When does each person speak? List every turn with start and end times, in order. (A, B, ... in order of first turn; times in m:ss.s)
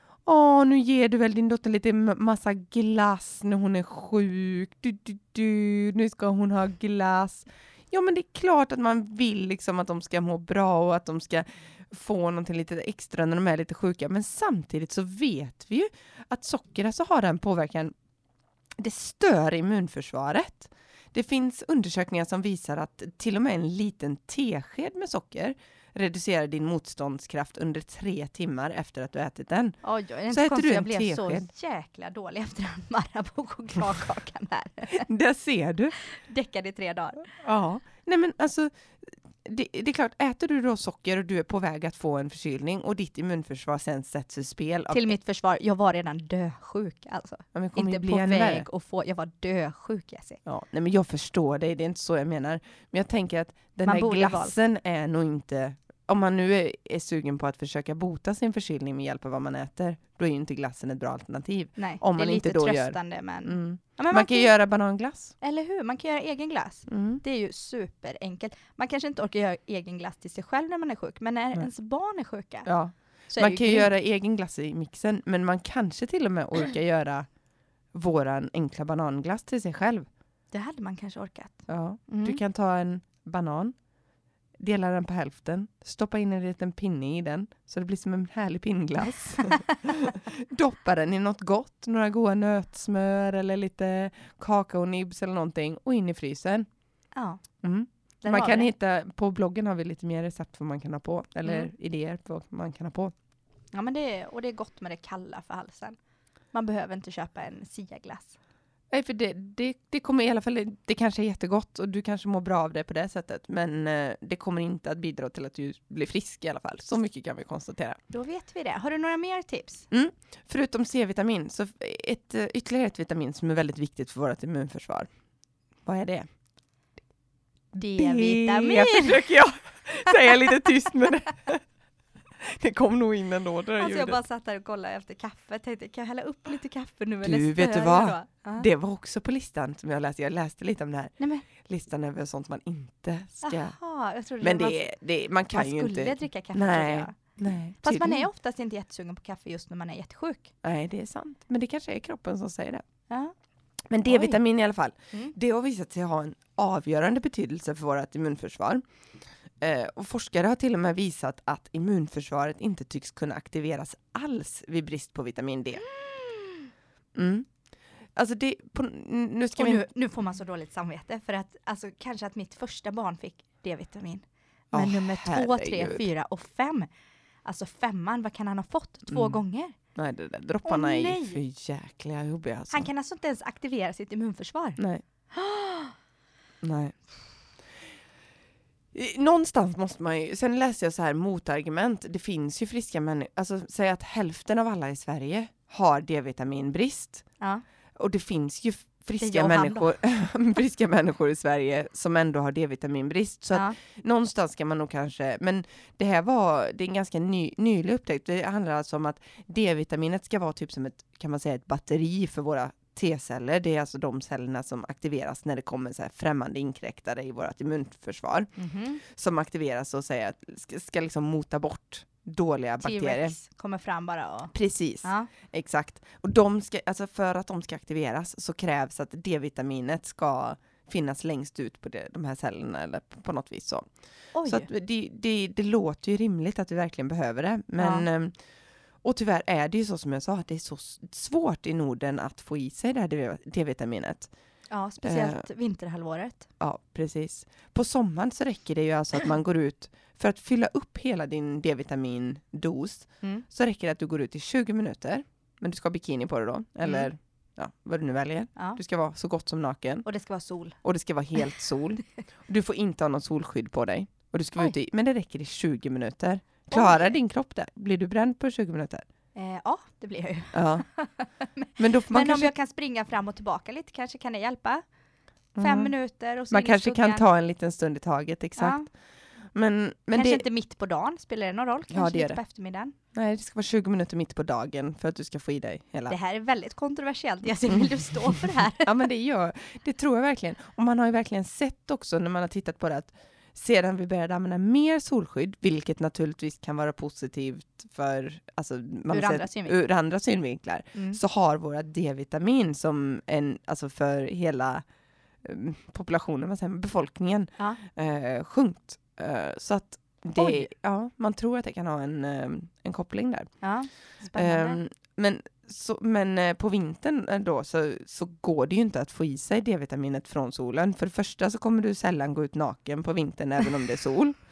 0:00.2-0:17.9 A
0:18.8-0:29.8 A
0:29.8-0:35.1 B
0:30.3-0:31.5 A
0:34.9-0:35.9 A
0:36.0-0:37.3 B
0:37.4-0:45.1 A
0:44.9-0:50.4 B
0:47.5-0:48.7 A
0:50.4-1:05.3 A
0:53.8-0:54.6 B
1:01.8-1:04.5 B
1:05.4-1:12.7 B
1:06.9-1:07.2 A
1:12.6-1:17.3 A
1:13.3-1:13.9 B
1:17.9-1:20.0 A
1:20.5-1:22.4 B
1:21.7-1:23.7 A
1:24.6-1:36.6 A
1:29.4-1:29.7 B
1:37.1-1:37.4 B
1:37.6-1:43.1 A
1:38.2-1:38.7 B
1:43.7-1:46.0 B
1:46.5-1:48.4 B
1:48.9-1:58.0 A
1:58.1-1:59.9 B
1:59.9-2:05.1 A
2:05.8-2:06.2 A
2:07.7-2:09.3 B
2:07.8-2:11.6 A
2:12.4-2:14.2 A
2:13.8-2:18.7 B
2:17.2-2:23.8 A
2:21.2-2:21.4 B
2:23.4-2:24.9 B
2:24.4-2:28.2 A
2:25.5-2:27.2 B
2:27.8-2:30.5 B
2:30.6-2:32.8 A
2:33.9-2:38.8 A
2:34.0-2:34.4 B
2:39.6-2:45.8 A
2:45.9-2:46.6 B
2:47.1-2:47.5 A
2:48.2-2:49.8 A
2:49.6-2:56.9 B
2:54.7-2:56.0 A
2:57.4-2:59.8 B
2:59.1-2:59.4 A
2:59.9-3:02.9 A
3:00.6-3:01.4 B
3:02.7-3:05.9 B
3:04.8-3:05.0 A
3:06.6-3:06.9 A
3:08.9-3:17.2 A
3:18.0-3:38.5 A
3:19.2-3:20.0 B
3:38.6-3:39.0 B
3:39.0-3:43.4 A
3:42.8-3:45.3 B
3:44.5-3:53.9 A
3:54.3-3:54.7 B
3:54.4-3:58.3 A
3:57.8-3:58.0 B
3:59.0-4:04.3 A
4:04.7-4:06.5 B
4:05.0-4:05.4 A
4:06.6-4:20.0 A
4:16.8-4:17.1 B
4:20.0-4:20.8 B
4:20.8-4:29.0 A
4:26.7-4:27.2 B
4:29.4-4:34.8 B
4:30.5-4:30.8 A
4:31.8-4:32.5 A
4:35.6-4:35.9 A
4:35.6-4:37.2 B
4:36.5-4:38.8 A
4:38.6-4:38.9 B
4:39.5-4:40.4 A
4:40.1-4:42.9 B
4:41.9-4:42.4 A
4:43.1-4:46.2 A
4:46.1-4:48.9 B
4:47.7-5:04.8 A
4:59.1-4:59.8 B
5:00.9-5:01.2 B
5:05.4-5:13.5 A
5:10.4-5:10.7 B
5:13.6-5:14.8 B
5:14.4-5:24.4 A